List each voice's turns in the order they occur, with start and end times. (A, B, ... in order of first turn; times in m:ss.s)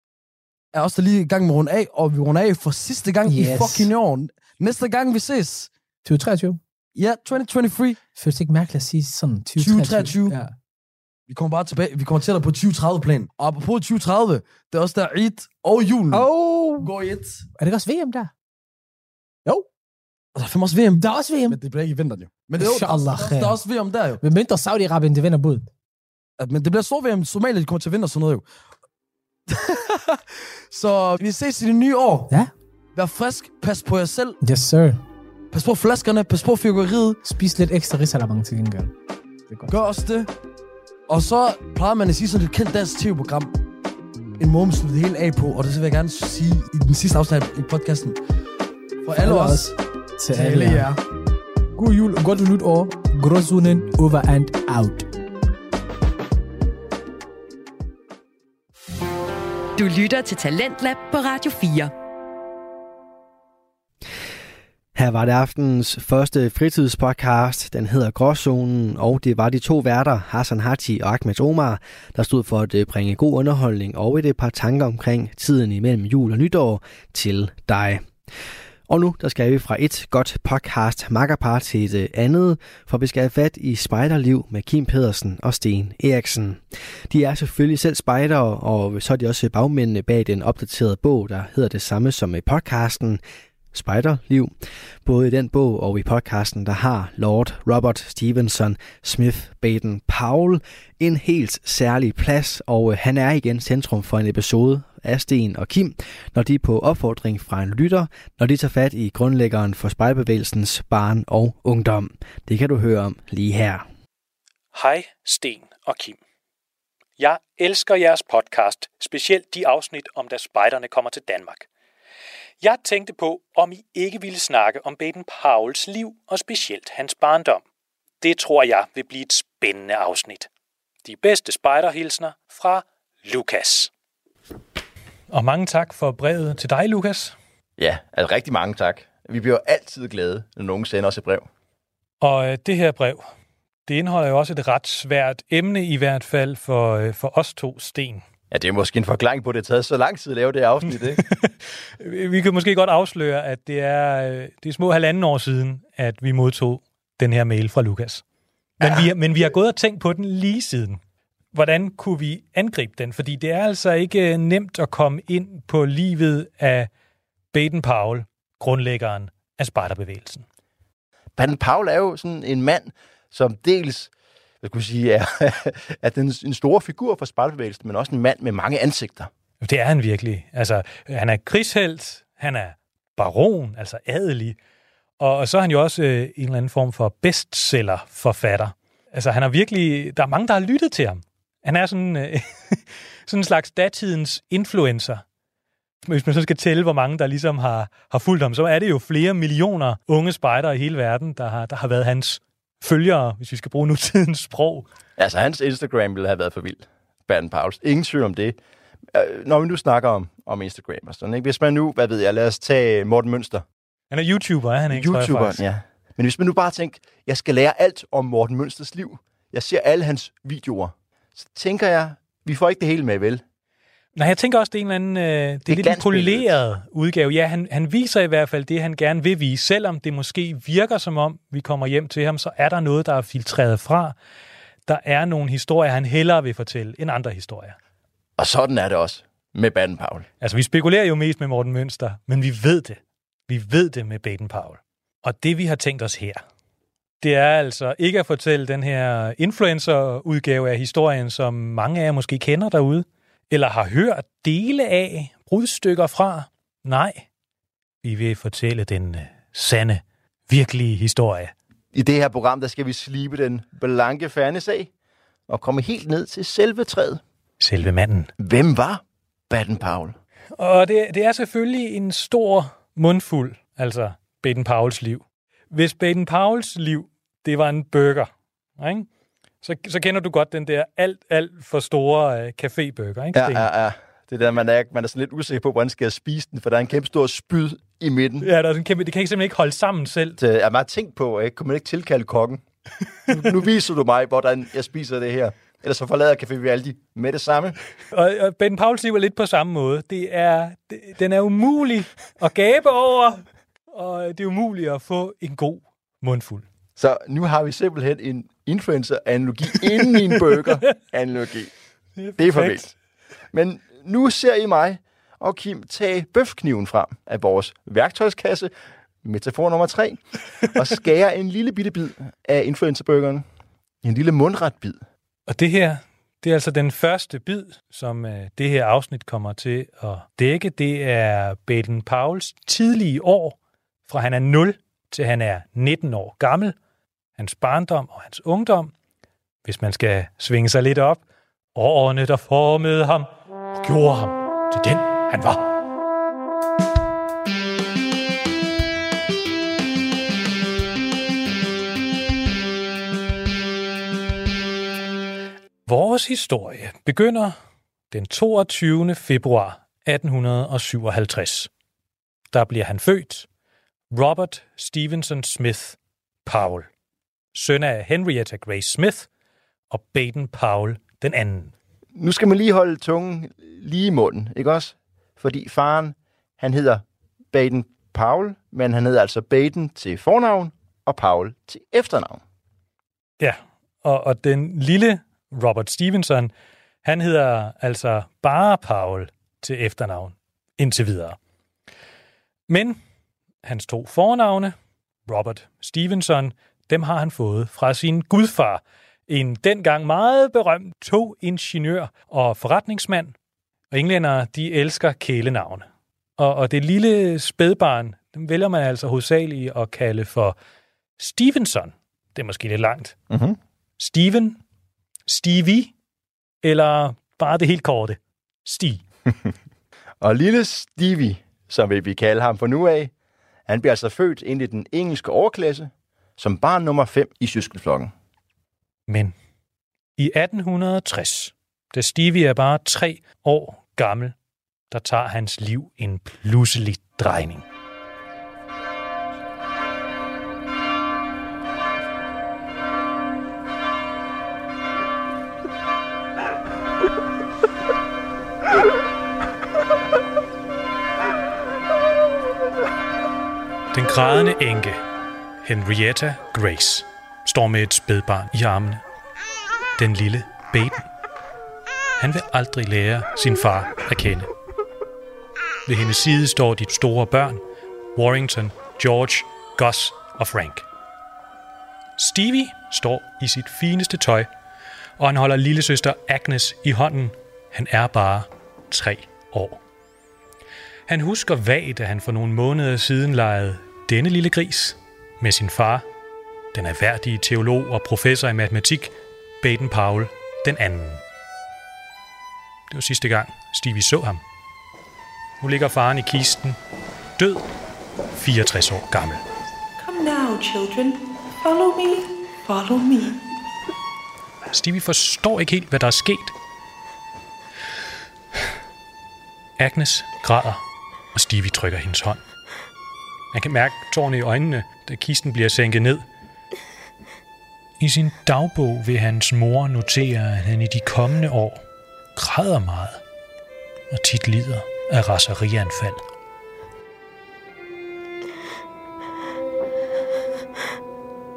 0:00.7-0:05.7 A
0:03.2-0:03.9 B
0:06.0-0:06.6 B
0:07.0-0:08.0 A
0:08.2-0:10.5 B
0:09.6-0:10.4 A
0:11.3-0:16.3 A
0:16.1-0:16.9 B
0:16.8-0:17.4 A
0:17.6-0:18.3 B
0:20.3-0:24.2 A
0:21.0-0:21.6 B
0:22.6-0:23.6 B
0:24.2-0:25.7 B
0:26.4-0:28.4 A
0:29.5-0:32.3 A
0:33.0-0:34.4 A
0:34.4-0:35.0 B
0:35.5-0:37.2 A
0:37.2-0:38.9 B
0:39.5-0:39.7 B
0:39.7-0:40.3 A
0:41.1-0:43.5 A
0:44.4-0:48.2 A
0:49.0-0:49.7 A
0:49.2-0:50.9 B
0:50.3-0:51.0 A
0:51.7-0:55.1 B
0:59.8-1:01.9 C
1:04.9-1:18.0 D
1:18.9-1:33.2 D
1:33.7-1:53.8 D
1:54.7-1:56.2 E
1:57.2-2:01.6 E
2:02.6-2:07.6 E
2:08.2-2:10.5 E
2:11.0-2:13.9 E
2:15.3-2:17.3 E
2:17.8-2:21.4 F
2:22.2-2:23.2 E
2:23.9-2:28.2 E
2:28.5-2:31.2 F
2:31.2-2:38.2 E
2:38.8-2:41.0 E
2:38.8-2:39.1 F
2:41.5-2:46.9 E
2:47.5-2:50.4 E
2:51.4-2:54.1 F
2:54.6-2:59.3 F
2:59.6-3:04.6 E
3:05.2-3:15.2 E
3:16.0-3:24.8 E
3:25.2-3:28.6 F
3:29.1-3:33.6 F
3:34.1-3:35.6 E
3:34.9-3:43.4 F
3:44.1-3:54.2 E
3:45.7-3:46.5 F
3:54.9-3:57.8 E
3:58.4-4:00.3 F
4:00.4-4:06.4 E
4:07.2-4:17.2 E
4:18.0-4:21.5 E
4:21.9-4:24.9 F
4:25.5-4:27.2 F
4:27.6-4:28.3 E
4:28.4-4:30.2 F
4:30.6-4:39.1 E
4:39.6-4:43.6 E
4:43.3-4:48.5 F
4:48.4-4:50.4 E
4:50.4-4:52.6 F
4:53.3-4:57.8 F
4:58.1-5:03.4 E
5:03.9-5:06.6 E
5:07.0-5:11.7 F
5:12.2-5:12.9 E
5:12.4-5:12.9 F
5:13.5-5:18.7 F
5:19.2-5:20.2 F
5:20.7-5:23.4 F
5:24.0-5:25.0 F
5:25.5-5:33.6 E
5:34.1-5:36.7 E
5:37.4-5:38.9 E
5:39.6-5:41.2 E
5:41.7-5:45.7 E
5:55.8-5:57.5 E
5:58.1-6:01.7 E
6:02.5-6:03.5 E
6:04.1-6:06.9 E
6:07.5-6:09.3 E
6:09.9-6:11.7 E
6:12.1-6:22.4 F
6:23.4-6:26.5 E
6:27.0-6:31.4 E
6:32.7-6:33.0 E
6:33.6-6:34.7 E
6:35.3-6:43.3 E
6:43.9-6:45.8 E
6:46.4-6:50.6 E
6:51.2-6:53.1 E
6:53.3-6:53.6 F
6:54.0-6:54.6 E
6:55.3-6:55.9 E
6:56.6-6:59.0 E
7:00.2-7:03.1 F
7:03.7-7:08.1 F
7:09.1-7:09.3 E
7:10.2-7:14.3 E
7:14.9-7:17.6 E
7:33.9-7:35.0 E
7:35.6-7:39.0 E
7:40.0-7:41.1 E
7:42.2-7:44.5 E
7:45.8-7:47.6 E
7:48.1-7:50.8 E
7:52.2-7:54.5 E
7:55.2-7:59.8 E
8:01.1-8:06.0 E
8:06.7-8:11.2 E
8:12.9-8:14.4 E
8:15.6-8:16.8 E
8:17.4-8:17.6 E
8:18.3-8:19.4 E
8:20.0-8:23.4 G
8:24.7-8:26.5 E
8:29.8-8:30.8 E
8:31.3-8:32.4 E
8:33.5-8:36.2 E
8:38.0-8:41.8 E
8:42.4-8:43.2 E
8:44.1-8:46.2 E